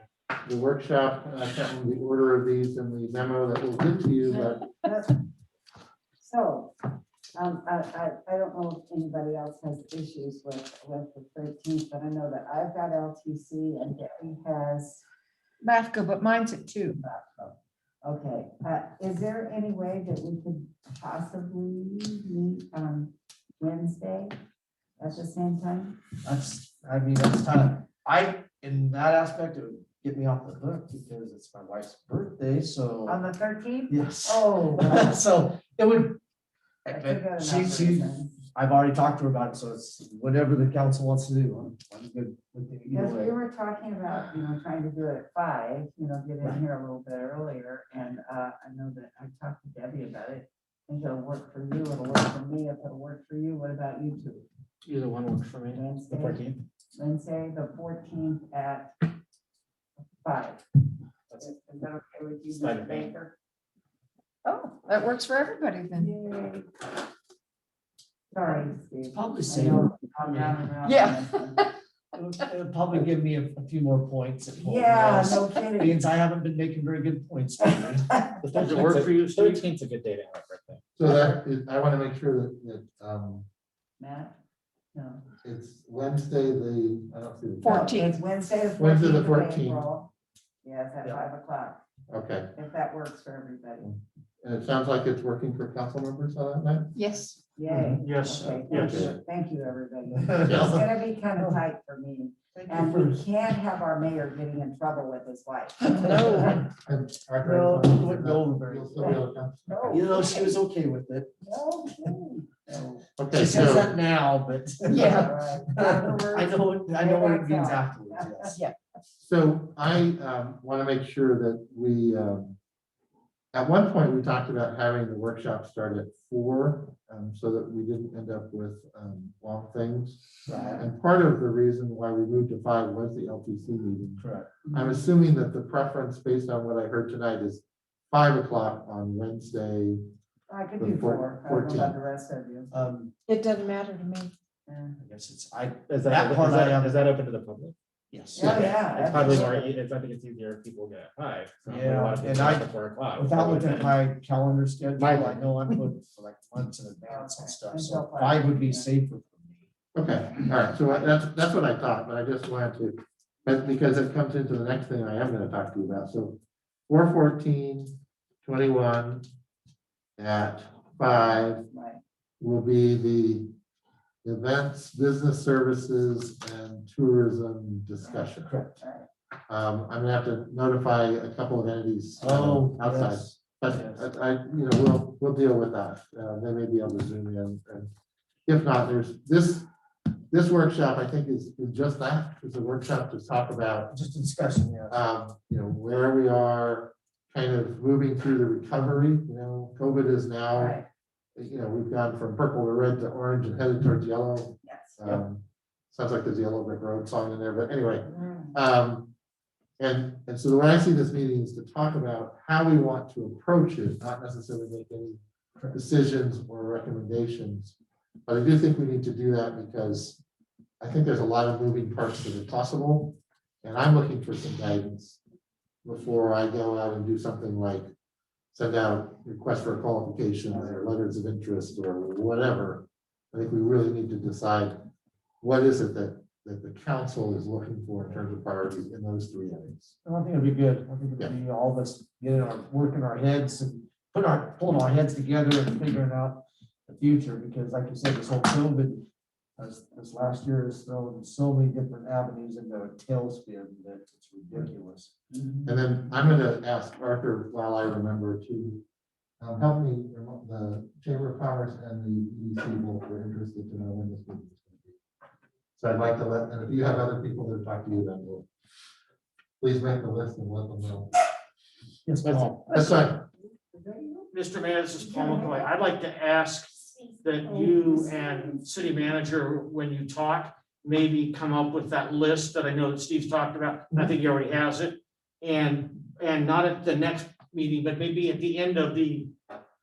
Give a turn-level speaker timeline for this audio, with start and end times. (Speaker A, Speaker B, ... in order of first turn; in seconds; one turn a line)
Speaker A: 0.4-4.6
Speaker B: 4.8-5.1
Speaker B: 6.2-6.7
Speaker B: 7.3-15.0
Speaker C: 15.6-17.0
Speaker B: 17.0-24.3
Speaker B: 25.0-26.0
Speaker D: 26.2-33.2
Speaker B: 33.0-35.2
Speaker D: 33.9-36.2
Speaker D: 36.8-43.3
Speaker B: 36.9-38.3
Speaker B: 42.9-54.5
Speaker E: 54.8-56.6
Speaker B: 55.7-56.4
Speaker B: 56.9-58.9
Speaker B: 60.2-60.6
Speaker B: 61.4-63.3
Speaker E: 62.5-63.1
Speaker C: 64.4-66.1
Speaker B: 65.9-66.7
Speaker B: 68.3-71.6
Speaker D: 69.1-70.7
Speaker C: 70.8-71.7
Speaker D: 72.1-78.2
Speaker B: 74.6-76.0
Speaker E: 78.4-80.8
Speaker F: 78.5-79.6
Speaker A: 81.0-83.5
Speaker B: 81.0-81.3
Speaker B: 84.0-84.3
Speaker B: 84.9-85.2
Speaker A: 85.4-87.9
Speaker C: 87.6-88.1
Speaker B: 87.6-90.1
Speaker A: 88.8-89.8
Speaker B: 90.6-91.8
Speaker A: 92.1-92.5
Speaker B: 92.5-93.9
Speaker A: 93.8-97.0
Speaker C: 96.9-97.4
Speaker B: 97.5-106.7
Speaker F: 98.0-99.1
Speaker A: 98.7-99.1
Speaker D: 98.7-99.2
Speaker D: 100.1-100.9
Speaker A: 100.4-100.8
Speaker D: 102.5-103.3
Speaker D: 105.9-106.6
Speaker C: 106.0-106.5
Speaker A: 106.7-110.1
Speaker D: 107.4-109.2
Speaker B: 109.0-110.5
Speaker D: 109.9-111.3
Speaker B: 111.4-113.0
Speaker A: 113.2-113.9
Speaker D: 113.3-118.6
Speaker B: 114.9-118.5
Speaker C: 114.9-115.3
Speaker A: 119.2-122.6
Speaker A: 123.5-140.0
Speaker D: 130.5-130.9
Speaker D: 134.2-134.5
Speaker B: 134.7-135.1
Speaker B: 140.5-142.8
Speaker A: 140.8-141.9
Speaker D: 142.7-143.1
Speaker C: 143.3-144.3
Speaker B: 144.7-144.9
Speaker D: 145.0-147.0
Speaker E: 145.9-147.7
Speaker D: 148.1-148.8
Speaker B: 148.3-149.7
Speaker E: 148.4-153.9
Speaker D: 151.7-159.6
Speaker E: 155.0-155.4
Speaker B: 157.1-158.8
Speaker A: 159.9-169.2
Speaker A: 170.2-171.6
Speaker B: 171.7-172.0
Speaker A: 172.4-173.5
Speaker A: 174.2-178.5
Speaker B: 178.0-179.1
Speaker D: 178.4-178.8
Speaker A: 179.5-187.9
Speaker D: 182.2-184.0
Speaker A: 188.4-189.7
Speaker A: 190.3-193.9
Speaker D: 193.9-194.9
Speaker A: 194.9-200.8
Speaker B: 200.5-200.8
Speaker A: 201.3-209.1
Speaker B: 204.6-204.9
Speaker B: 208.1-208.5
Speaker A: 209.8-215.2
Speaker A: 215.7-217.8
Speaker A: 218.3-220.2
Speaker A: 220.8-225.2
Speaker A: 225.8-227.9
Speaker A: 228.5-234.8
Speaker D: 230.5-230.9
Speaker A: 235.4-239.9
Speaker D: 240.0-249.0
Speaker D: 249.6-255.1
Speaker B: 255.3-255.6
Speaker A: 255.6-258.8
Speaker A: 259.4-265.0
Speaker A: 265.8-268.4
Speaker A: 269.6-271.1
Speaker D: 272.1-272.7
Speaker E: 272.2-272.6
Speaker A: 272.7-273.2
Speaker B: 273.7-274.3
Speaker F: 274.3-289.3
Speaker B: 275.0-275.7
Speaker B: 277.5-277.8